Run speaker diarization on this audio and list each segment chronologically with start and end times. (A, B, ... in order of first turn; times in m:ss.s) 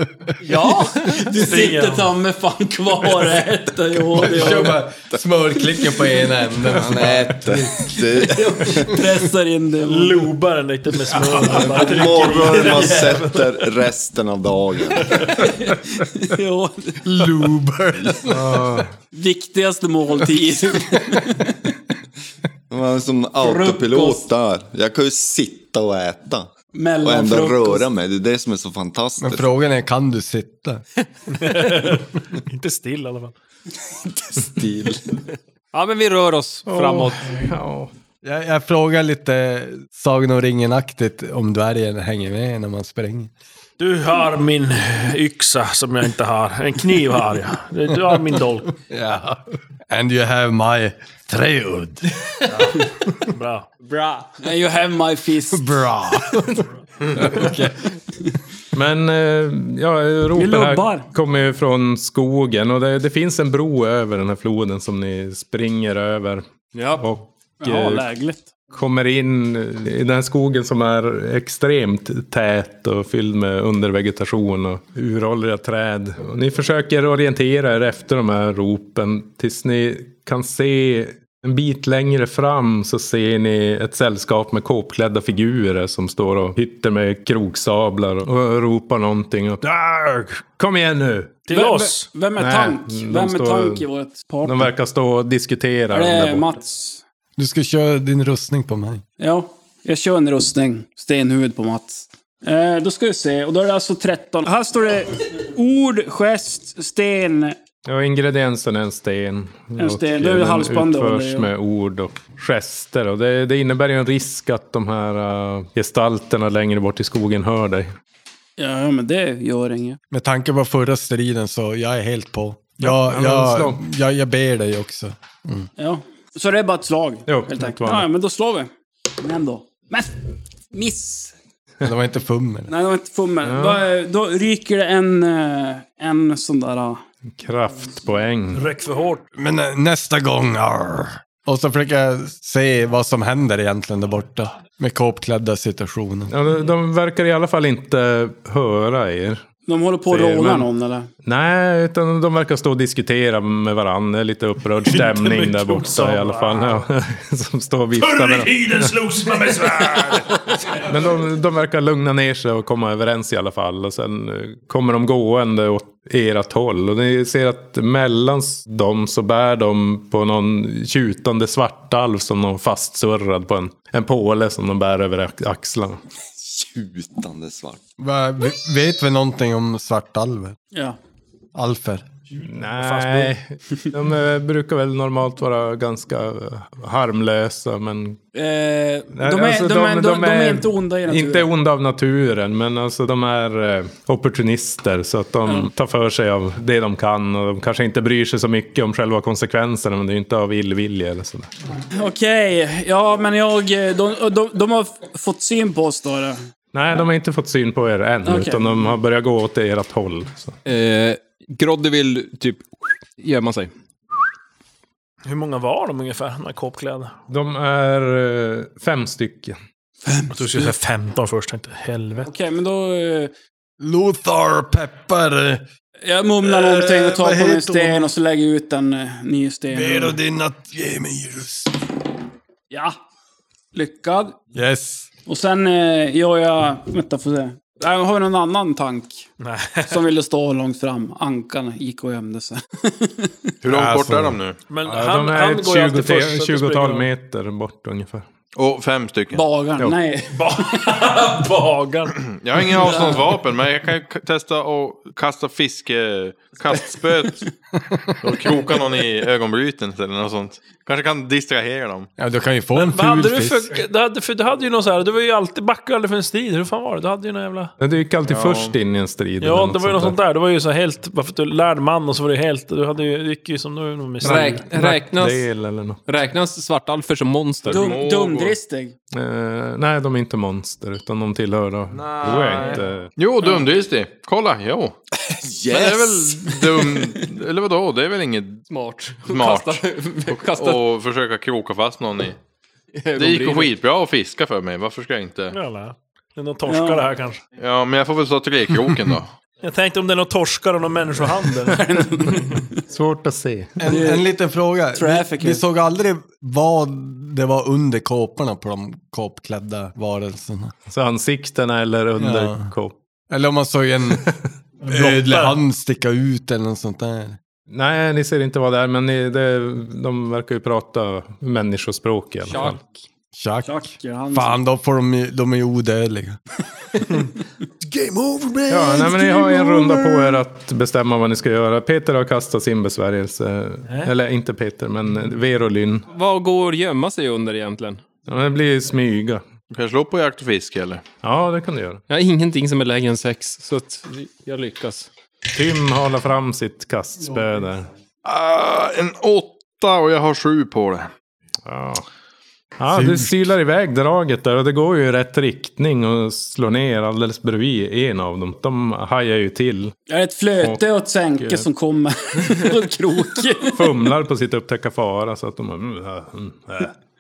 0:00.4-0:04.8 A
0:01.3-0:02.1 B
0:04.2-0:07.8 C
0:06.7-0:09.0 D
0:08.2-0:10.3 A
0:09.9-0:13.3 B
0:11.5-0:15.4 D
0:15.1-0:17.0 A
0:17.0-0:18.8 C
0:18.3-0:18.9 E
0:19.1-0:21.6 A
0:22.7-0:26.5 D
0:23.4-0:24.2 A
0:26.7-0:27.9 A
0:27.0-0:29.5 D
0:29.2-0:30.8 C
0:31.3-0:33.3 B
0:34.3-0:35.1 D
0:35.7-0:37.4 F
0:36.7-0:37.9 E
0:38.2-0:43.3 C
0:43.8-0:48.8 B
0:48.8-0:52.7 C
0:53.3-0:53.7 B
0:53.9-0:54.2 F
0:54.4-0:55.8 A
0:55.5-0:57.9 C
0:58.7-1:06.4 E
1:00.4-1:01.1 A
1:06.7-1:07.1 F
1:07.0-1:08.0 E
1:07.6-1:08.5 A
1:08.7-1:31.4 E
1:31.5-1:32.1 B
1:31.5-1:34.7 A
1:32.4-1:33.8 E
1:34.4-1:36.5 E
1:35.9-1:37.0 A
1:37.4-1:39.0 C
1:39.2-1:47.6 A
1:47.9-1:57.9 E
1:49.8-1:51.5 A
1:58.6-2:00.0 A
2:00.1-2:05.7 C
2:02.8-2:03.8 E
2:05.8-2:10.2 A
2:07.3-2:08.1 E
2:10.7-2:11.3 A
2:11.8-2:12.7 C
2:12.7-2:17.0 A
2:13.4-2:13.8 E
2:17.4-2:18.7 E
2:18.6-2:19.2 B
2:19.4-2:26.3 C
2:26.3-2:29.4 E
2:29.7-2:31.1 A
2:30.1-2:30.7 E
2:31.2-2:38.9 E
2:34.8-2:36.8 B
2:38.0-2:40.9 B
2:40.7-2:56.0 E
2:56.4-2:57.8 D
2:58.0-3:00.6 C
3:00.7-3:01.0 A
3:01.6-3:02.0 C
3:02.4-3:03.3 B
3:02.4-3:08.2 E
3:08.4-3:11.5 A
3:09.1-3:21.5 E
3:21.9-3:26.4 A
3:26.7-3:30.6 E
3:28.2-3:28.8 A
3:30.6-3:32.7 F
3:33.2-3:33.7 F
3:35.2-3:37.2 B
3:37.3-3:39.6 E
3:40.1-3:40.6 A
3:40.3-3:42.3 B
3:42.2-3:43.3 A
3:43.8-3:45.6 C
3:46.0-3:50.2 A
3:46.4-3:48.1 C
3:49.7-3:51.7 C
3:52.7-3:53.0 A
3:53.7-3:54.4 A
3:54.5-3:55.1 C
3:55.3-3:59.3 A
3:59.4-4:00.0 B
3:59.9-4:03.5 A
4:03.6-4:04.6 G
4:03.6-4:04.4 C
4:04.7-4:07.1 B
4:04.9-4:08.3 E
4:08.6-4:09.4 G
4:09.3-4:10.9 A
4:10.4-4:12.2 B
4:12.3-4:17.4 G
4:12.9-4:13.2 A
4:18.2-4:22.1 G
4:22.2-4:23.8 C
4:22.8-4:27.7 B
4:27.8-4:30.2 E
4:28.2-4:28.8 G
4:29.4-4:34.7 B
4:34.2-4:35.5 F
4:34.2-4:36.0 E
4:36.1-4:37.9 F
4:37.6-4:38.6 G
4:37.7-4:38.9 A
4:39.1-4:43.1 E
4:41.9-4:45.0 G
4:42.2-4:42.8 B
4:45.3-4:46.7 D
4:45.7-4:48.7 G
4:48.7-4:50.9 F
4:49.3-4:52.4 G
4:52.9-4:53.7 F
4:53.2-4:55.6 G
4:55.5-4:57.4 B
4:56.7-4:57.0 A
4:57.6-4:59.3 G
4:59.6-5:01.8 B
5:01.7-5:02.7 A
5:02.8-5:03.8 E
5:03.8-5:10.7 C
5:03.9-5:04.2 A
5:05.0-5:05.6 A
5:10.9-5:13.0 E
5:12.2-5:12.7 C
5:13.3-5:14.2 C
5:14.8-5:15.6 B
5:14.9-5:17.4 C
5:17.7-5:22.8 E
5:22.5-5:23.0 F
5:23.3-5:26.4 C
5:23.6-5:24.6 A
5:27.8-5:30.4 C
5:28.7-5:36.1 E
5:36.1-5:38.0 F
5:38.3-5:39.4 E
5:39.7-5:41.0 G
5:41.2-5:42.0 E
5:42.1-5:45.1 F
5:45.5-5:47.9 E
5:48.2-5:51.1 G
5:51.7-5:52.1 E
5:52.8-5:59.9 E
5:52.9-5:53.3 C
6:00.1-6:03.8 A
6:01.4-6:01.7 E
6:03.7-6:06.9 E